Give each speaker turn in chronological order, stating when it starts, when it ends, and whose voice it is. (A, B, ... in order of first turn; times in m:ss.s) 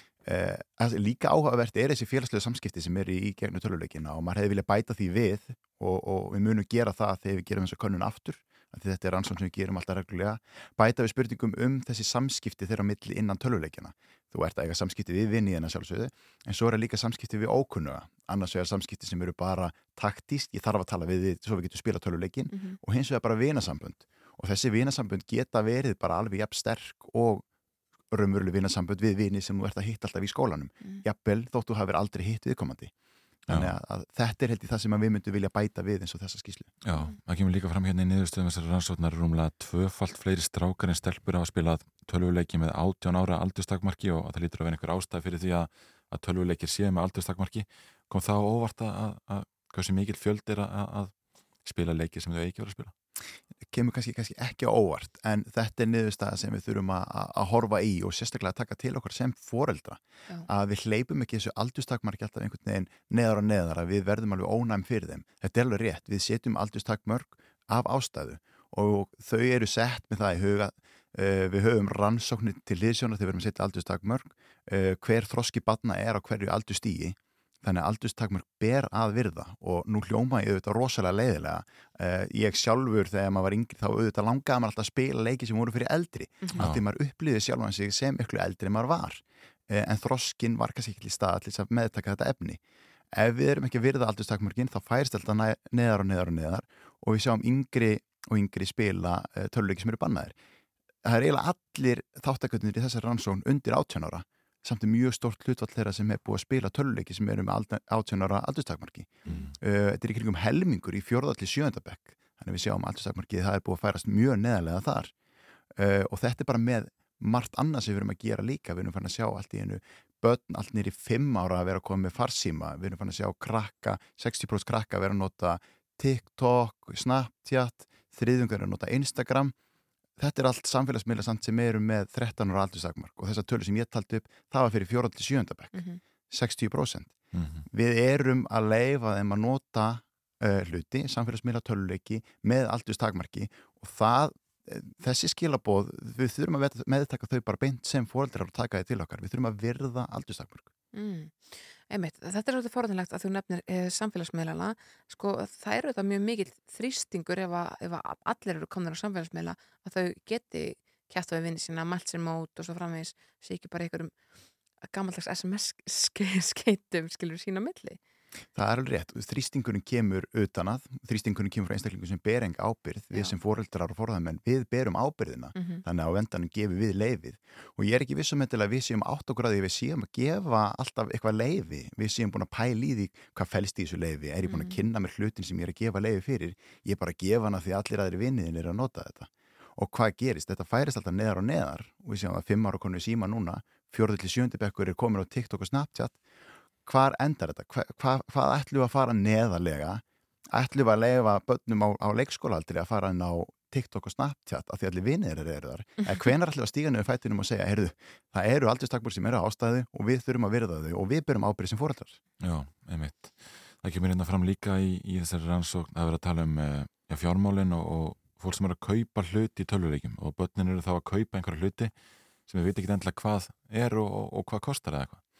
0:00.2-0:27.4 A
0:22.5-0:22.8 B
0:28.1-0:32.9 A
0:33.5-0:33.8 C
0:33.5-0:36.7 A
0:36.8-0:52.9 C
0:53.7-1:32.6 A
1:26.4-1:26.7 B
1:26.6-1:26.8 C
1:33.1-1:40.3 A
1:41.0-1:55.1 A
1:49.2-1:49.5 B
1:55.8-2:09.5 A
2:10.2-2:30.7 A
2:15.7-2:16.0 B
2:17.3-2:17.6 C
2:30.9-2:44.1 B
2:44.8-2:48.0 B
2:48.5-3:16.2 A
2:55.5-2:55.8 B
3:04.4-3:04.8 B
3:16.8-3:32.2 A
3:32.4-3:41.9 C
3:42.5-3:45.2 C